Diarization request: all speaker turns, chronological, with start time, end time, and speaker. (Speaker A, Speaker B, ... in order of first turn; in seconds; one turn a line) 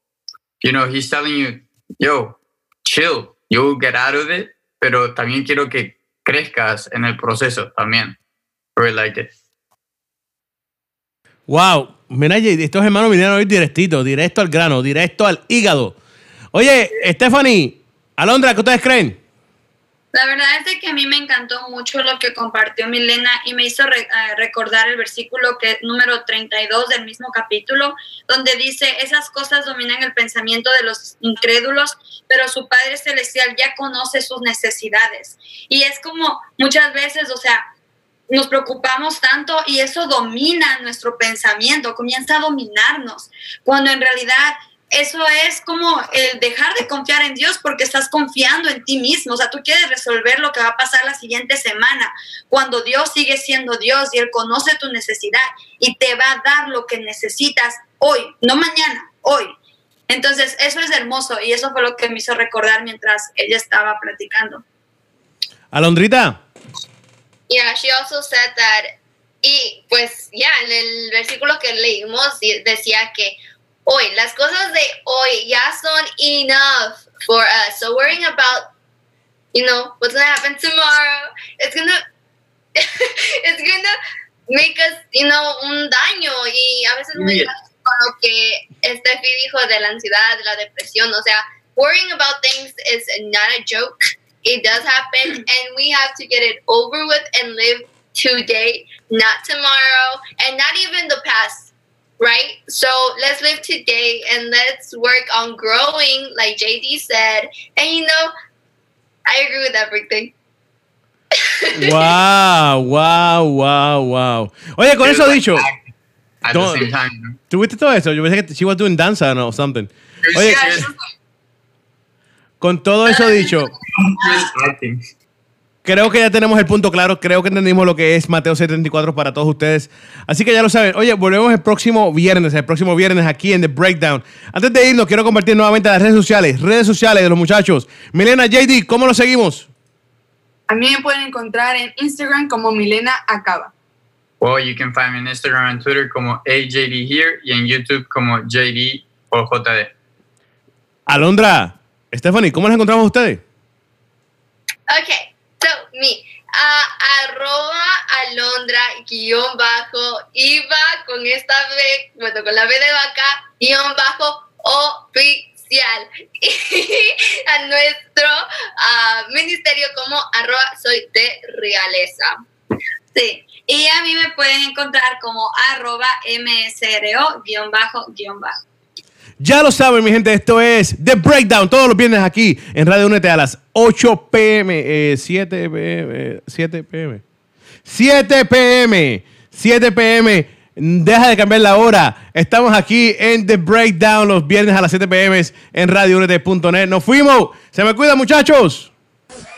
Speaker A: 0.6-8.2
Speaker A: 8.8-9.3
Speaker B: 11.5-16.0
Speaker B: 16.5-19.2
Speaker C: 20.1-37.6
Speaker C: 38.3-59.5
Speaker C: 60.1-64.6
Speaker B: 65.7-66.4
Speaker D: 67.5-78.7
Speaker D: 79.5-82.0
Speaker D: 82.8-84.0
Speaker D: 84.5-108.3
Speaker A: 87.2-87.5
Speaker D: 109.3-110.3
Speaker D: 111.5-112.1
Speaker B: 111.7-115.7
Speaker A: 115.0-115.8
Speaker A: 116.4-117.4
Speaker B: 116.5-116.9
Speaker B: 117.5-120.9
Speaker A: 120.2-120.9
Speaker B: 122.6-123.7
Speaker A: 124.0-125.0
Speaker B: 125.8-139.7
Speaker E: 140.7-143.7
Speaker A: 144.4-149.9
Speaker B: 151.1-153.4
Speaker D: 154.9-172.4
Speaker C: 173.1-178.6
Speaker B: 179.4-187.2
Speaker B: 187.9-198.9